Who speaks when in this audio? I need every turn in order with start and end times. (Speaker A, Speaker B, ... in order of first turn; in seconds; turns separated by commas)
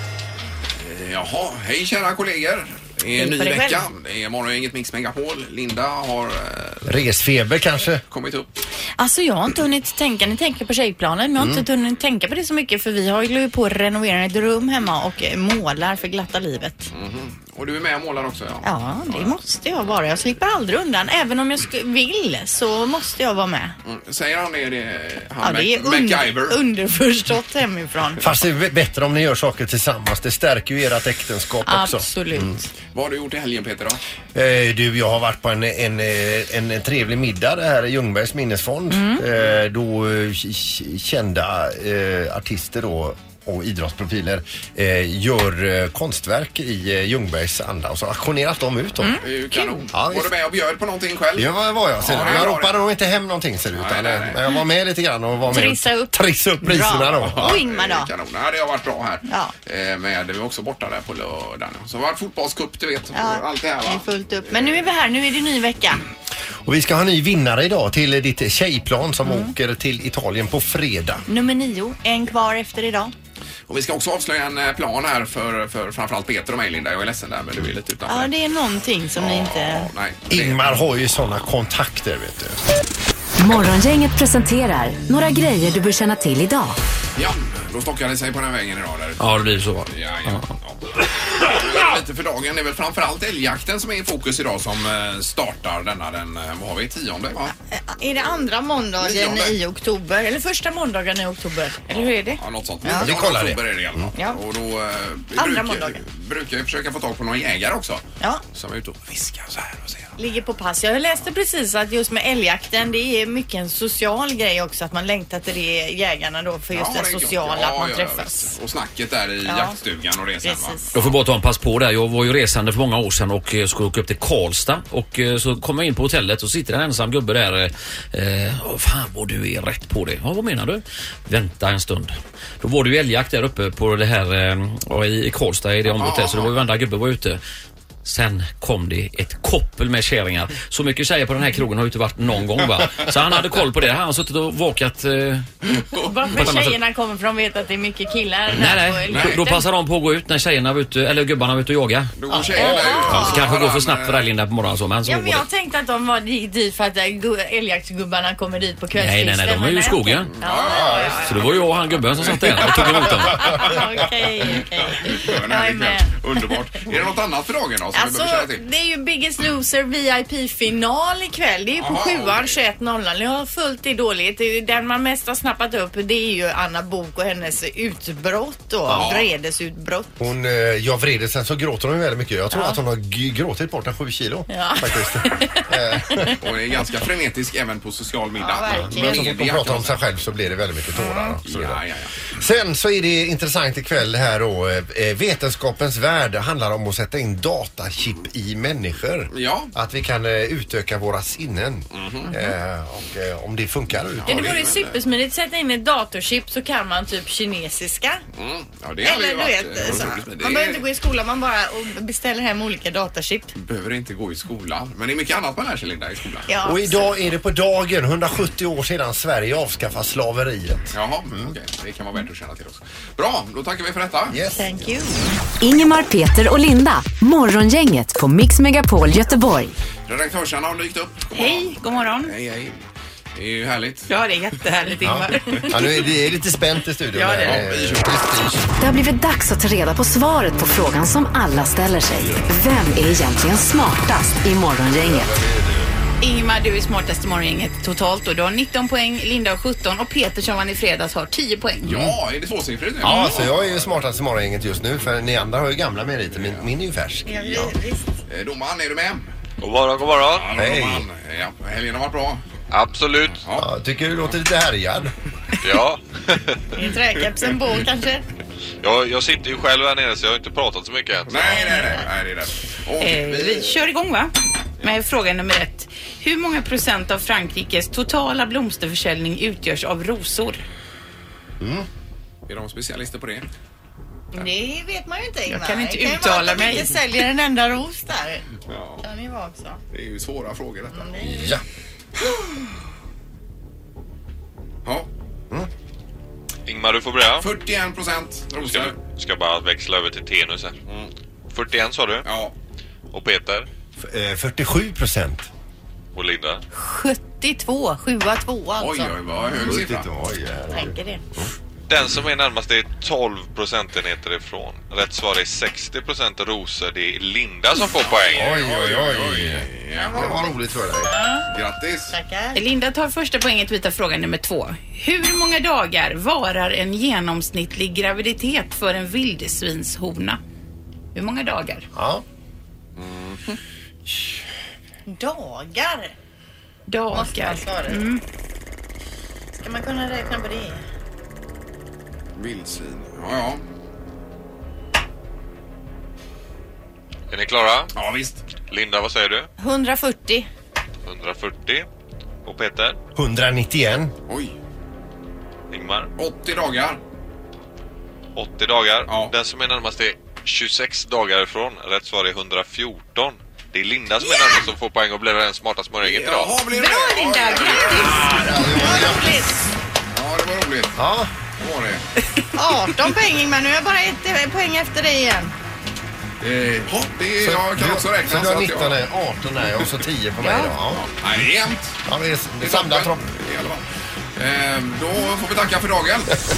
Speaker A: 0.8-7.0, Speaker B: 3.1-3.9, Speaker C: 6.8-8.0, Speaker A: 8.1-8.5, Speaker B: 9.0-16.9, Speaker C: 11.4-11.6, Speaker A: 16.9-19.4, Speaker B: 18.6-23.7, Speaker A: 23.8-26.6, Speaker B: 25.4-28.2, Speaker C: 28.2-32.6, Speaker D: 31.7-32.4, Speaker B: 31.8-32.5, Speaker A: 32.9-34.0, Speaker C: 34.3-49.2, Speaker B: 49.0-49.8, Speaker A: 49.2-52.8, Speaker C: 49.9-50.3, Speaker C: 51.4-57.6, Speaker A: 53.7-54.4, Speaker B: 55.5-58.1, Speaker A: 57.2-64.8, Speaker B: 59.3-59.5, Speaker B: 63.1-66.0, Speaker C: 66.6-71.2, Speaker B: 69.2-69.5, Speaker B: 71.3-73.1, Speaker A: 73.7-78.3, Speaker B: 78.1-79.9, Speaker A: 79.2-80.8, Speaker C: 80.3-82.6, Speaker E: 83.4-86.8, Speaker A: 87.2-97.5, Speaker F: 89.2-90.5, Speaker B: 97.7-103.1, Speaker A: 99.0-99.5, Speaker A: 101.9-108.0, Speaker C: 103.0-104.1, Speaker B: 105.4-106.0, Speaker A: 108.5-110.2, Speaker B: 110.2-118.5, Speaker A: 116.7-121.2, Speaker B: 119.5-119.8, Speaker B: 120.4-120.8, Speaker F: 121.0-137.4, Speaker A: 135.9-136.5, Speaker F: 138.0-145.5, Speaker A: 145.7-146.5, Speaker B: 146.0-149.6, Speaker F: 146.3-146.8, Speaker F: 148.5-152.1, Speaker A: 149.1-149.4, Speaker A: 152.2-154.3, Speaker C: 152.3-152.8, Speaker B: 152.6-153.4, Speaker F: 153.1-155.4, Speaker B: 155.0-161.5, Speaker F: 158.9-160.3, Speaker A: 160.4-163.2, Speaker C: 160.7-161.2, Speaker F: 161.2-163.6, Speaker B: 162.7-166.2, Speaker A: 164.6-168.6, Speaker B: 167.9-180.1, Speaker A: 171.8-172.6, Speaker A: 178.9-179.3, Speaker C: 180.2-186.3, Speaker B: 182.5-182.8, Speaker B: 184.5-186.3, Speaker A: 186.4-190.0, Speaker B: 188.4-189.4, Speaker C: 188.7-191.8, Speaker A: 191.4-192.2, Speaker C: 192.3-204.7, Speaker A: 199.3-199.7, Speaker A: 201.9-202.3, Speaker A: 204.1-205.0, Speaker B: 204.3-208.2, Speaker A: 208.3-210.8, Speaker B: 209.0-213.5, Speaker A: 213.6-216.5, Speaker B: 216.5-217.0, Speaker C: 216.6-221.5, Speaker A: 220.9-224.4, Speaker C: 224.3-224.7, Speaker B: 224.6-225.1, Speaker E: 225.6-229.7, Speaker A: 230.1-232.8, Speaker D: 231.3-232.3, Speaker A: 233.3-234.1, Speaker D: 234.1-235.9, Speaker C: 235.0-238.6, Speaker D: 237.1-237.6, Speaker A: 237.4-238.4, Speaker E: 238.8-245.3, Speaker C: 245.0-245.9, Speaker D: 246.2-251.9, Speaker A: 251.8-253.9, Speaker C: 251.8-252.1, Speaker C: 253.0-257.7, Speaker A: 256.4-256.6, Speaker B: 257.3-258.1, Speaker A: 258.3-259.3, Speaker G: 259.6-260.5, Speaker A: 260.3-262.4, Speaker C: 260.6-261.1, Speaker G: 262.7-263.4, Speaker A: 263.4-263.7, Speaker C: 263.6-265.1, Speaker G: 265.6-266.8, Speaker B: 266.8-268.2, Speaker G: 268.8-271.7, Speaker A: 271.3-273.8, Speaker D: 273.0-280.6, Speaker C: 281.6-281.9, Speaker A: 282.5-283.5, Speaker B: 284.3-288.4, Speaker D: 285.5-287.0, Speaker A: 288.7-289.0, Speaker B: 289.0-289.8, Speaker A: 289.9-291.1, Speaker B: 290.9-291.5, Speaker C: 291.2-291.6, Speaker G: 296.6-297.5, Speaker A: 297.4-299.0, Speaker G: 298.6-300.8, Speaker G: 301.5-302.3, Speaker A: 302.2-302.5, Speaker G: 303.1-303.6, Speaker C: 304.0-305.4, Speaker G: 306.1-306.6, Speaker B: 306.7-309.1, Speaker A: 308.8-310.1, Speaker C: 309.6-311.4, Speaker B: 310.7-311.2, Speaker G: 311.9-318.5, Speaker A: 318.0-320.4, Speaker C: 318.3-321.1, Speaker B: 321.1-321.4, Speaker A: 321.5-322.1, Speaker B: 322.1-322.6, Speaker D: 322.5-330.4, Speaker D: 331.1-331.9, Speaker C: 331.9-332.2, Speaker A: 333.0-333.4, Speaker B: 335.1-336.1, Speaker D: 336.9-338.2, Speaker B: 337.1-338.0, Speaker B: 339.5-340.8, Speaker A: 342.4-343.6, Speaker G: 347.3-347.9, Speaker A: 347.9-348.4, Speaker G: 348.7-349.5, Speaker B: 349.6-350.5, Speaker G: 351.0-351.9, Speaker G: 352.4-353.0, Speaker C: 353.1-354.1, Speaker A: 354.3-354.5, Speaker G: 355.7-356.1, Speaker A: 356.2-357.0, Speaker G: 358.3-366.5, Speaker A: 359.1-359.3, Speaker A: 366.0-369.1, Speaker B: 366.7-369.7, Speaker C: 368.1-369.3, Speaker A: 370.1-371.0, Speaker C: 370.9-371.3, Speaker A: 371.6-372.1, Speaker B: 372.5-375.5, Speaker A: 376.4-379.0, Speaker C: 377.4-381.1, Speaker B: 380.4-380.7, Speaker A: 380.9-382.0, Speaker C: 382.1-383.2, Speaker A: 382.6-383.8, Speaker A: 384.4-386.4